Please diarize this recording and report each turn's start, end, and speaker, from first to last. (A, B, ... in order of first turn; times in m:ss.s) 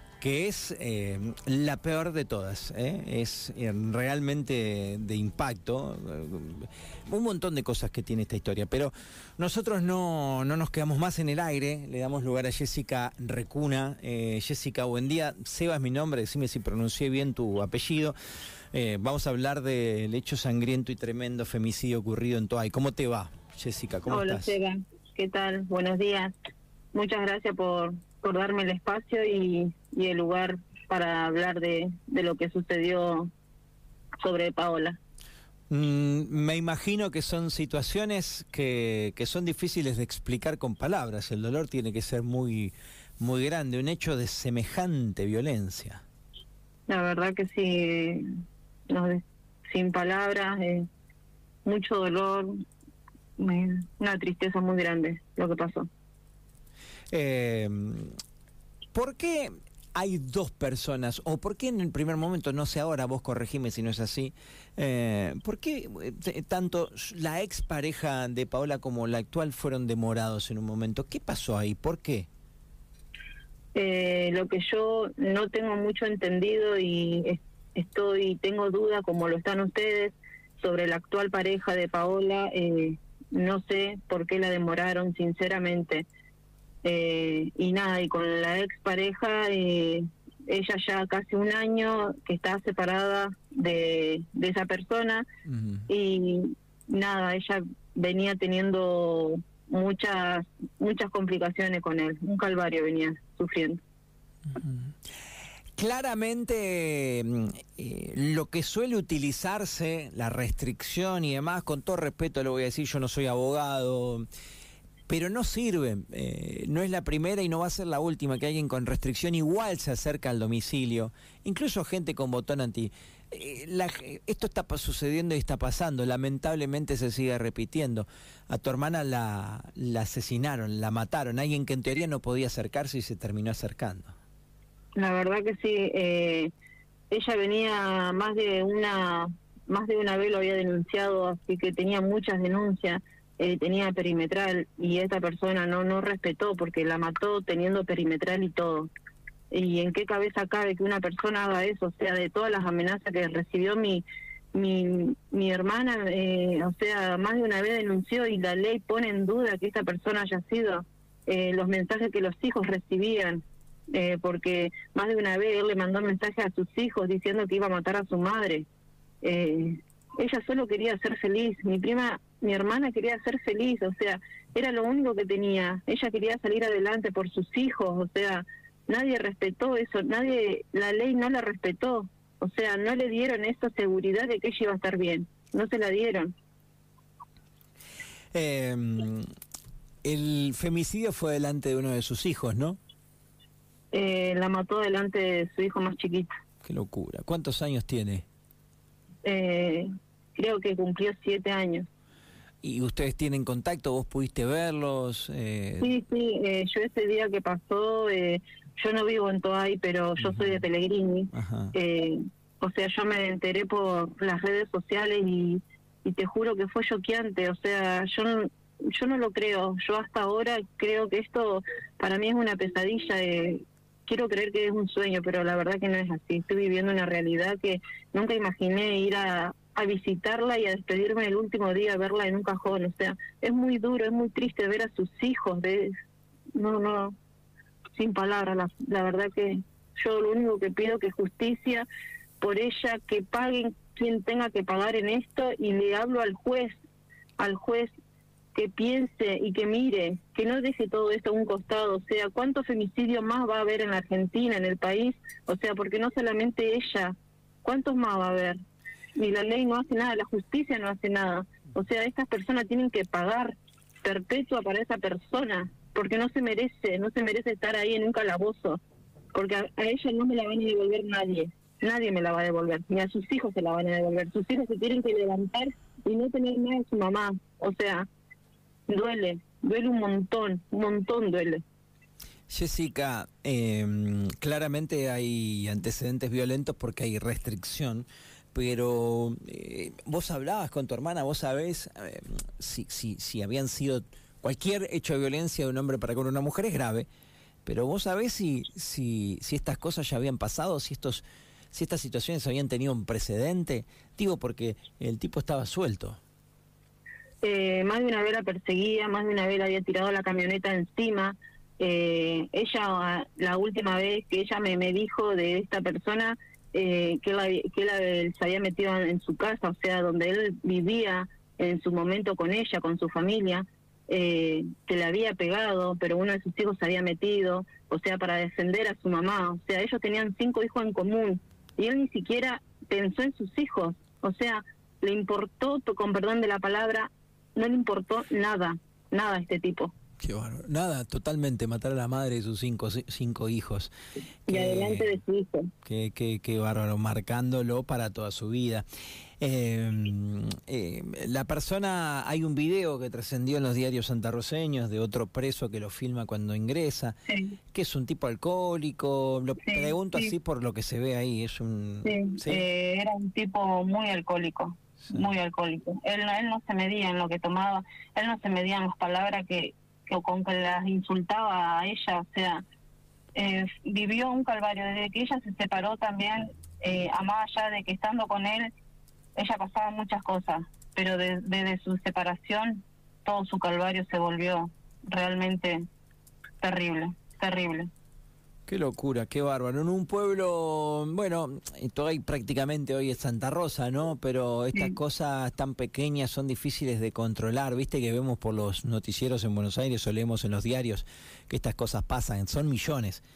0:00.2-0:18.2 A
0:18.7-0:24.6 A
0:24.1-0:26.3 B
0:26.9-0:33.3 B
0:34.2-0:35.0 B
0:35.7-0:46.0 A
0:46.9-0:48.2 B
0:48.9-0:50.8 B
0:51.6-0:52.5 B
0:53.4-0:55.9 B
0:57.1-0:58.2 A
0:58.9-1:12.3 A
1:13.7-1:26.0 B
1:26.8-1:35.3 B
1:35.5-1:35.8 A
1:35.9-1:43.8 B
1:44.5-1:44.9 A
1:45.8-1:54.3 A
1:55.1-2:14.1 A
2:15.0-2:16.5 B
2:17.1-2:28.9 B
2:29.5-2:48.7 B
2:49.2-3:06.3 B
3:08.3-3:09.3 A
3:10.0-3:12.8 A
3:13.9-3:16.3 B
3:16.6-3:18.2 A
3:19.2-3:21.9 B
3:22.6-3:26.0 A
3:25.8-3:55.9 B
3:30.2-3:30.6 A
3:31.3-3:31.7 A
3:56.5-3:57.1 B
3:57.9-4:01.9 B
4:02.4-4:06.8 B
4:07.4-4:07.9 B
4:08.5-4:18.6 B
4:19.1-4:28.8 B
4:29.3-4:38.1 B
4:38.9-4:41.6 B
4:42.5-4:57.1 A
4:57.6-5:06.2 A
5:07.4-5:39.9 B
5:40.2-5:43.9 A
5:44.5-5:45.2 A
5:44.5-5:45.7 B
5:45.8-5:48.8 A
5:49.4-5:57.2 A
5:57.3-5:57.6 B
5:57.7-6:02.6 A
5:59.6-6:00.3 B
6:02.0-6:12.6 B
6:13.3-6:18.7 B
6:19.4-6:25.8 B
6:26.6-6:27.9 B
6:28.7-6:43.2 A